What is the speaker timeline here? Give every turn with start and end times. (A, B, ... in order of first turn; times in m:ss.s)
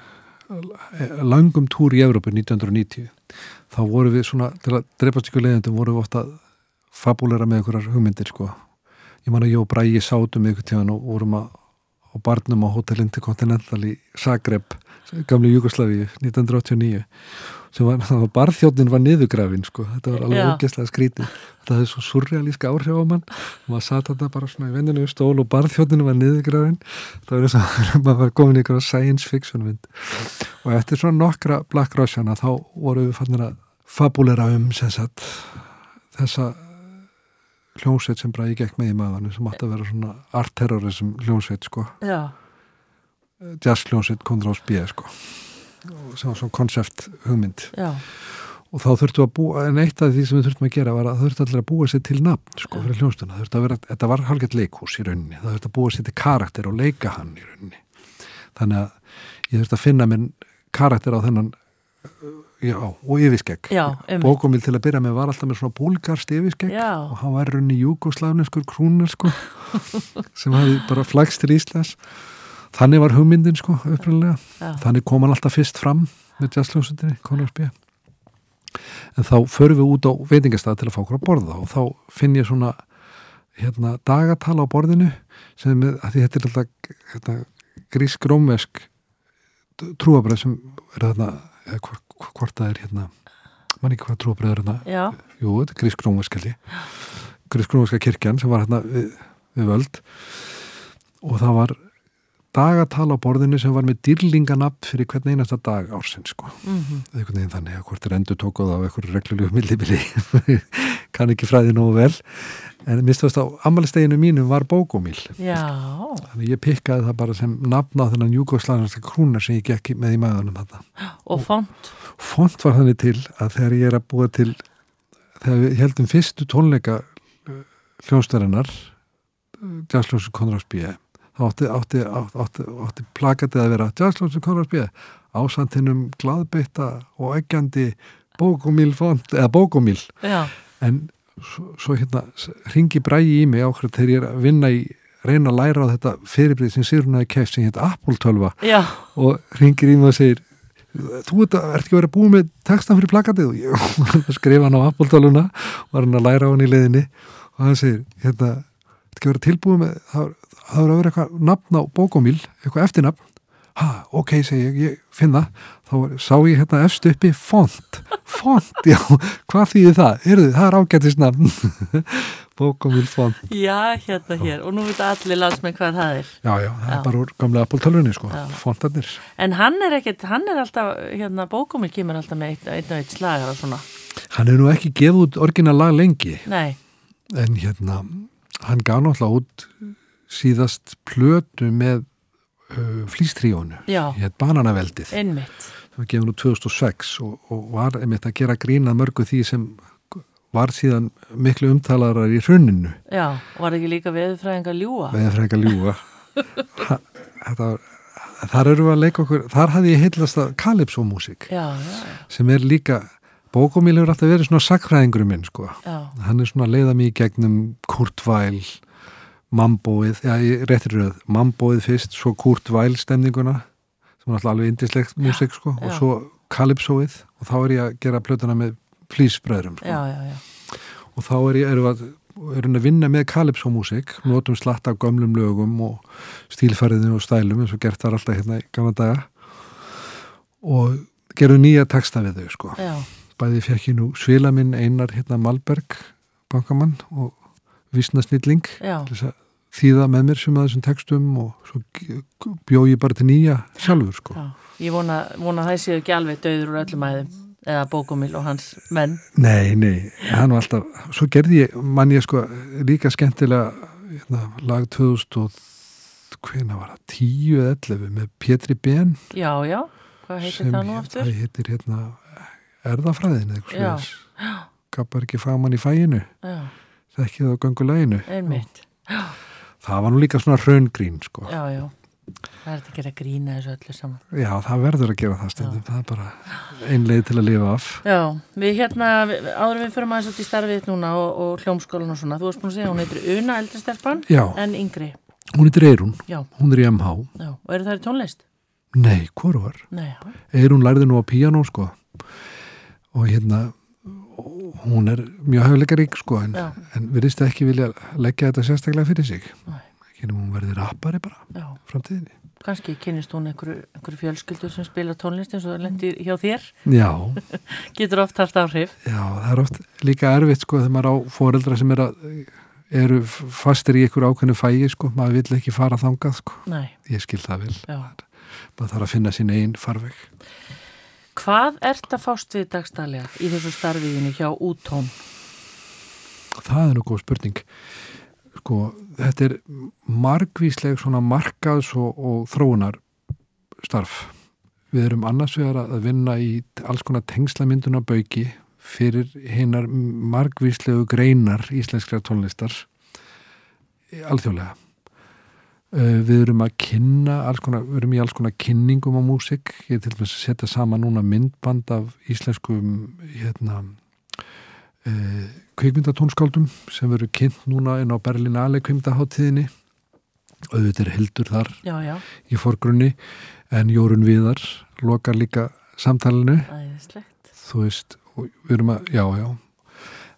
0:00.5-0:06.4 A
0:06.9-0:08.6 A
0:09.2-0:11.6 A
0:12.1-0:37.0 A
0:20.2-0:20.6 B
0:37.8-0:42.0 A
0:42.0-0:42.3 B
0:43.4-0:57.8 A
0:47.7-0:48.0 B
0:58.5-1:12.2 A
1:03.7-1:04.4 B
1:06.7-1:07.1 B
1:12.7-1:17.7 A
1:19.2-1:22.8 A
1:23.6-1:28.9 A
1:29.8-1:33.1 A
1:33.8-1:36.7 A
1:34.8-1:35.2 B
1:37.5-1:40.7 A
1:41.2-1:41.8 A
1:42.5-1:55.4 A
1:46.6-1:47.1 B
1:55.4-1:56.3 B
1:56.3-2:01.5 A
2:01.0-2:01.9 B
2:02.0-2:04.6 A
2:05.4-2:08.9 A
2:09.6-2:20.2 A
2:20.2-2:20.5 B
2:20.8-2:43.2 A
2:28.6-2:29.1 B
2:43.8-2:53.4 A
2:53.5-2:57.1 B
2:56.4-2:59.2 A
2:58.3-2:58.6 B
2:59.4-3:03.8 B
3:04.3-3:06.5 A
3:06.5-3:06.8 B
3:07.3-3:12.1 A
3:12.7-3:15.2 A
3:13.9-3:14.2 B
3:15.1-3:15.7 B
3:15.9-3:23.0 A
3:23.1-3:25.2 B
3:25.1-3:26.0 A
3:26.7-3:31.5 A
3:31.5-3:32.3 B
3:32.3-3:38.8 A
3:35.8-3:36.1 B
3:39.5-3:43.7 A
3:44.2-3:50.0 A
3:45.8-3:46.0 B
3:49.8-3:50.4 B
3:51.1-4:07.4 A
4:02.8-4:03.1 B
4:07.9-4:14.4 A
4:08.8-4:09.1 B
4:14.3-4:19.2 B
4:19.4-4:29.2 A
4:29.3-4:31.3 B
4:30.4-4:34.2 A
4:33.7-4:34.7 B
4:34.9-4:36.3 A
4:36.4-4:36.7 B
4:37.1-4:38.7 A
4:38.3-4:39.4 B
4:39.8-4:41.5 A
4:41.5-4:41.9 B
4:42.6-4:44.2 B
4:44.3-4:48.0 A
4:48.0-4:55.2 B
4:54.3-4:54.6 A
4:55.5-4:57.3 A
4:57.4-4:58.4 B
4:58.9-4:59.9 A
4:59.9-5:00.3 B
5:00.5-5:02.1 A
5:03.1-5:09.6 A
5:10.2-5:12.3 A
5:11.5-5:11.8 B
5:12.6-5:16.7 B
5:16.8-5:17.4 A
5:17.5-5:19.0 B
5:19.0-5:28.2 A
5:26.7-5:26.9 B
5:27.9-5:28.1 B
5:28.8-5:30.3 A
5:31.4-5:35.2 B
5:36.6-5:37.7 A
5:38.6-5:43.0 A
5:43.8-5:44.4 A
5:44.9-5:52.9 A
5:54.1-5:54.8 A
5:55.9-6:04.0 A
6:05.0-6:09.7 A
6:10.7-6:11.8 A
6:11.8-6:12.2 B
6:12.4-6:13.2 A
6:13.7-6:16.7 A
6:16.7-6:17.5 B
6:17.6-6:19.6 A